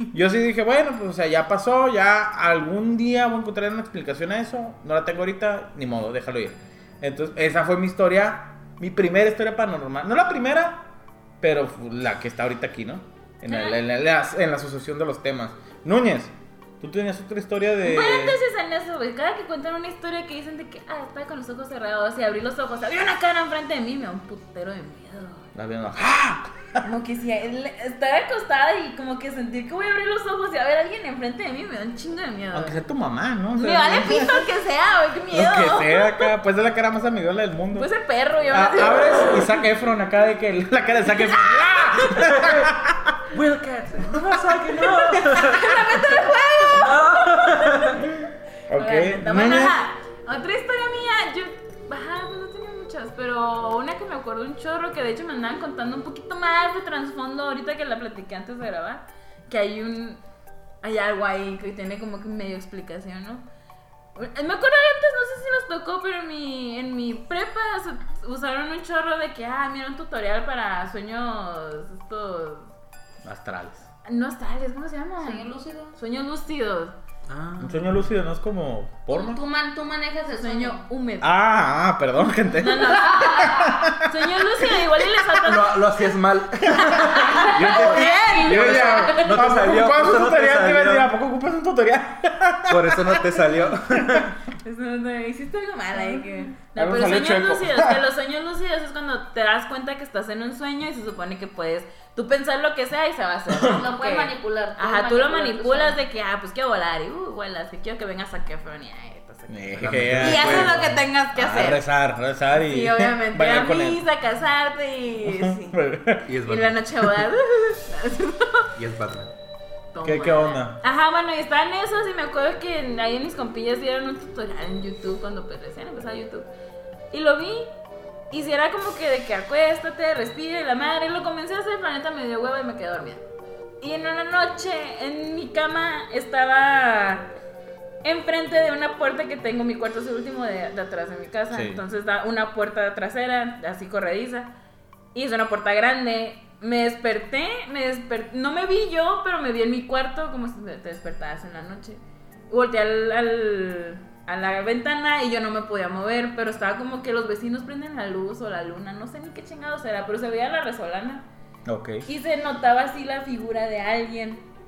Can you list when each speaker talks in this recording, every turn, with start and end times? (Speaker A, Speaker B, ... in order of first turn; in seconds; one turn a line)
Speaker A: 0.1-10.9
Speaker A: 11.4-18.4
Speaker B: 13.5-13.8
Speaker B: 17.8-25.5
Speaker A: 25.5-26.8
Speaker B: 26.8-32.8
Speaker A: 32.5-34.5
Speaker B: 33.5-36.3
Speaker A: 35.3-37.9
Speaker B: 37.7-39.6
Speaker A: 38.5-43.2
Speaker B: 41.1-42.2
Speaker C: 42.2-42.7
Speaker C: 43.3-45.9
Speaker B: 44.9-48.1
Speaker C: 46.7-48.0
Speaker A: 48.2-49.8
Speaker B: 48.7-60.2
Speaker B: 60.8-63.4
Speaker B: 64.2-72.7
Speaker A: 73.2-73.9
Speaker B: 74.0-77.0
Speaker D: 75.2-76.0
Speaker C: 77.3-77.9
Speaker A: 77.6-79.4
Speaker D: 79.1-80.8
Speaker B: 80.4-81.3
Speaker A: 81.2-84.9
Speaker B: 82.6-85.8
Speaker D: 82.8-83.9
Speaker C: 85.4-91.1
Speaker A: 86.6-94.3
Speaker B: 86.7-89.6
Speaker D: 87.3-89.3
Speaker C: 92.7-94.3
Speaker B: 94.6-111.8
Speaker A: 96.8-98.0
Speaker A: 103.5-103.8
Speaker D: 103.6-106.0
Speaker A: 109.5-114.0
Speaker C: 109.8-111.0
Speaker B: 112.6-115.8
Speaker A: 115.2-116.3
Speaker C: 116.3-116.8
Speaker B: 116.5-118.7
Speaker C: 118.8-119.3
Speaker B: 119.9-126.5
Speaker A: 120.0-120.8
Speaker B: 127.1-127.7
Speaker B: 128.3-133.2
Speaker B: 133.8-137.3
Speaker B: 138.0-144.5
Speaker A: 141.5-141.8
Speaker B: 145.1-161.2
Speaker A: 161.7-162.1
Speaker B: 162.1-164.4